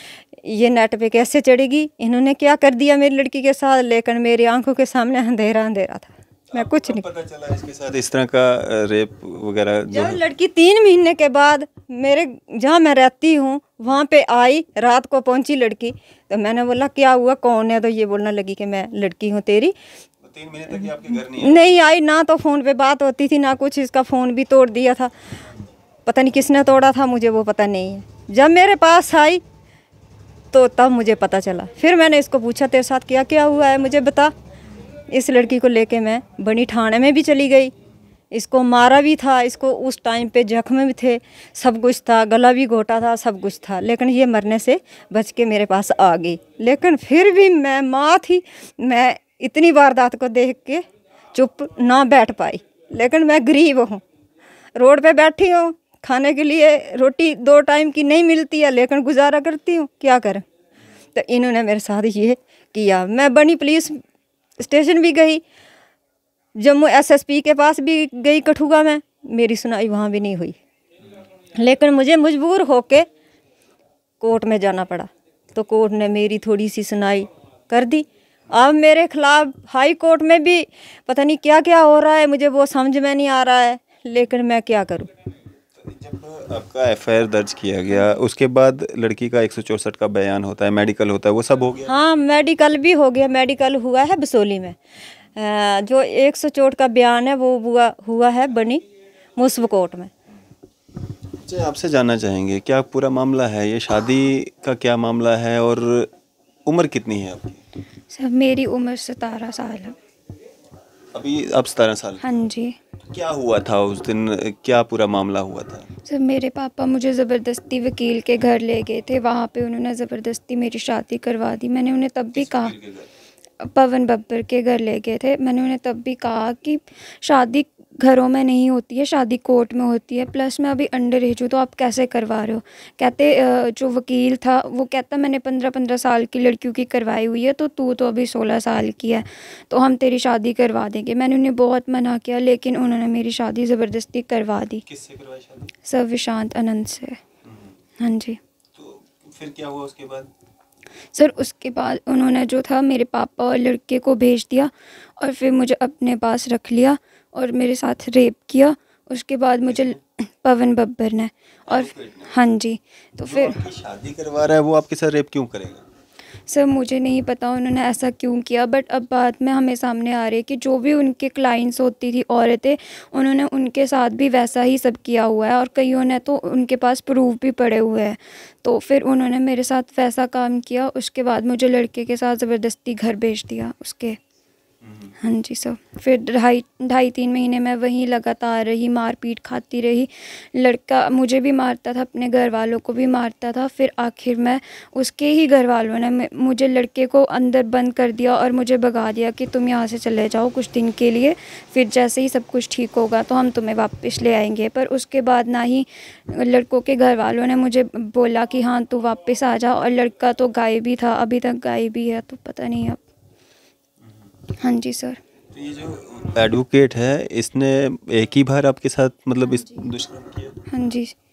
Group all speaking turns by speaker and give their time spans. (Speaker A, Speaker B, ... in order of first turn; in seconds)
Speaker A: 0.4-7.1, 9.9-19.7, 21.2-25.1, 26.1-29.4, 30.5-34.3, 35.1-37.7, 38.3-54.0, 54.7-60.4, 61.1-64.0, 64.6-65.4, 66.5-70.5, 71.5-73.1, 74.2-85.1, 91.8-94.8, 95.3-98.8, 99.3-100.1
Speaker B: 6.5-10.2, 20.2-21.8, 85.8-91.9, 101.4-106.1, 106.7-107.6, 111.1-112.2, 113.0-115.9, 122.3-123.1, 144.8-145.7, 148.8-150.3, 159.7-160.0, 161.7-162.3, 163.2-165.8, 215.5-220.6
Speaker C: 108.1-110.0, 112.2-112.8, 116.0-122.7, 123.6-144.8, 145.8-147.2, 148.0-148.4, 151.1-163.6, 166.5-184.2, 185.2-213.0, 214.6-215.2, 219.5-219.8, 220.7-221.1